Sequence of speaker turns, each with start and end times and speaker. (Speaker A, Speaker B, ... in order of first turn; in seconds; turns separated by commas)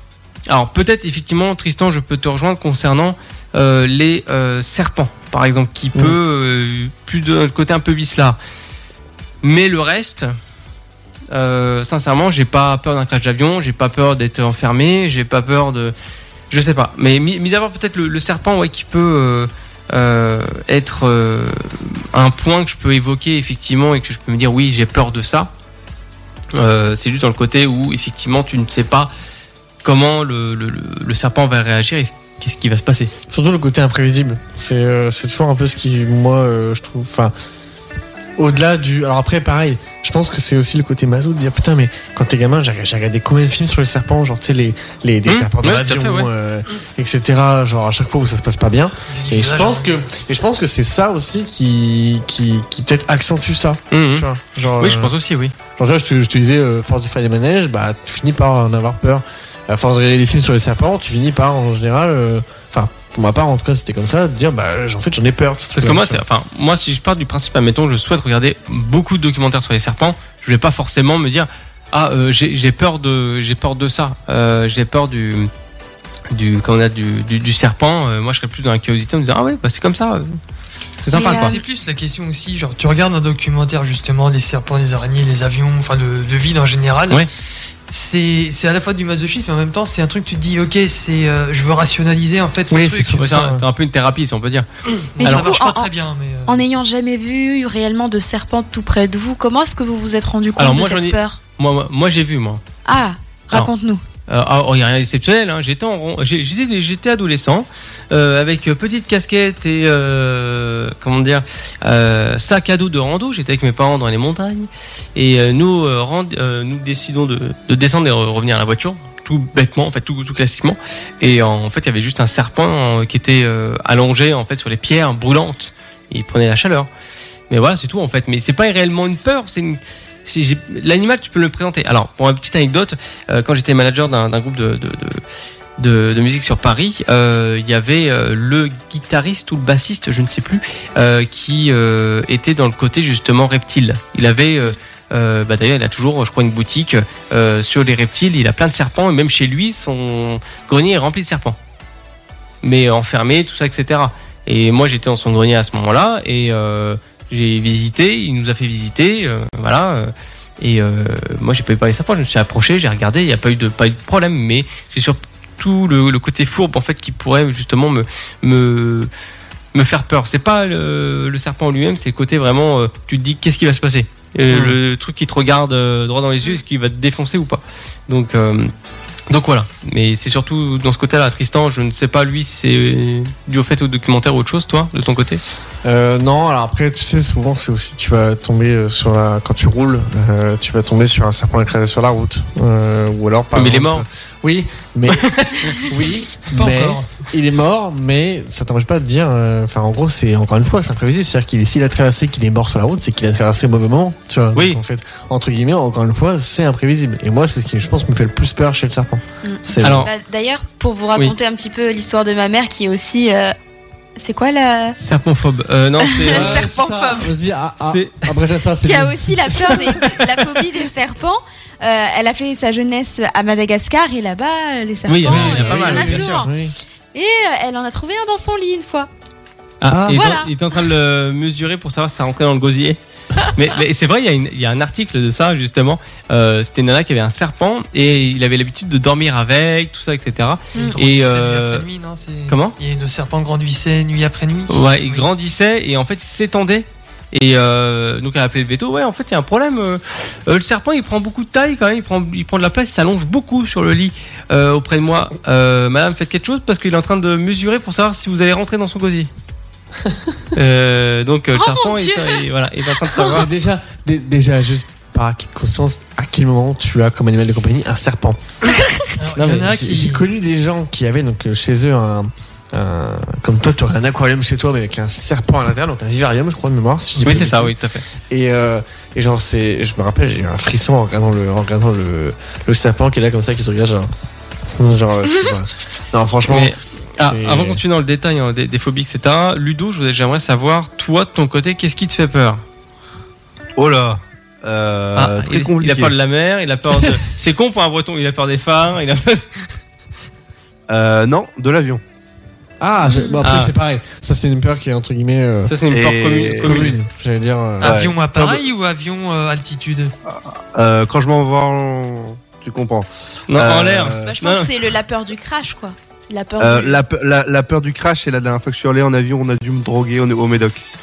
Speaker A: 0.5-8.4, Speaker A: 9.4-10.3, Speaker A: 11.3-15.9, Speaker A: 16.5-25.5, Speaker A: 26.5-29.1, Speaker A: 29.8-33.1, Speaker B: 33.3-37.3, Speaker B: 38.4-55.1, Speaker A: 45.3-46.3, Speaker C: 49.1-50.1, Speaker A: 53.9-54.3, Speaker A: 54.8-55.5, Speaker B: 55.8-66.2, Speaker A: 65.8-75.5, Speaker A: 76.3-80.4, Speaker A: 81.0-81.6, Speaker C: 81.1-87.3, Speaker D: 81.1-81.6, Speaker C: 87.9-93.6, Speaker B: 92.7-93.7, Speaker A: 93.2-94.7, Speaker C: 95.2-96.6, Speaker D: 95.2-95.9, Speaker A: 95.2-95.5, Speaker D: 96.5-101.4, Speaker A: 100.6-102.6, Speaker D: 102.9-104.0, Speaker A: 104.3-126.9, Speaker A: 127.5-135.2, Speaker A: 135.8-151.6, Speaker A: 152.6-169.1, Speaker A: 169.7-178.7, Speaker B: 174.5-174.8, Speaker A: 179.3-185.4, Speaker B: 185.8-210.1, Speaker A: 193.6-194.0, Speaker A: 195.1-195.8, Speaker C: 196.5-197.2, Speaker A: 204.5-204.8, Speaker D: 209.4-213.6, Speaker A: 209.8-210.1, Speaker D: 214.2-215.0, Speaker A: 215.0-216.7, Speaker D: 216.0-217.3, Speaker B: 216.3-219.7, Speaker A: 217.8-218.3, Speaker D: 218.8-226.5, Speaker A: 219.5-220.6, Speaker A: 225.1-226.5, Speaker B: 225.2-226.8, Speaker D: 227.1-229.1, Speaker A: 229.8-241.8, Speaker B: 229.9-230.2, Speaker D: 230.1-230.5, Speaker C: 240.8-245.3, Speaker A: 242.5-242.8, Speaker A: 244.7-259.3, Speaker A: 260.5-263.5, Speaker D: 261.5-262.5, Speaker D: 263.0-263.3, Speaker B: 263.3-268.4, Speaker D: 268.8-269.1, Speaker C: 269.2-270.3, Speaker A: 269.4-269.7, Speaker B: 269.4-277.8, Speaker A: 277.2-278.0, Speaker B: 278.3-284.1, Speaker B: 284.7-287.8, Speaker A: 286.5-292.6, Speaker E: 293.8-296.1, Speaker A: 295.1-299.4, Speaker E: 300.9-302.0, Speaker B: 302.8-305.8, Speaker D: 303.0-303.4, Speaker A: 303.4-303.7, Speaker A: 305.7-307.0, Speaker E: 305.9-306.9, Speaker B: 306.6-308.0, Speaker C: 307.8-310.1, Speaker E: 307.8-308.6, Speaker E: 310.3-314.4, Speaker A: 313.5-314.7, Speaker D: 314.2-317.0, Speaker E: 316.6-320.9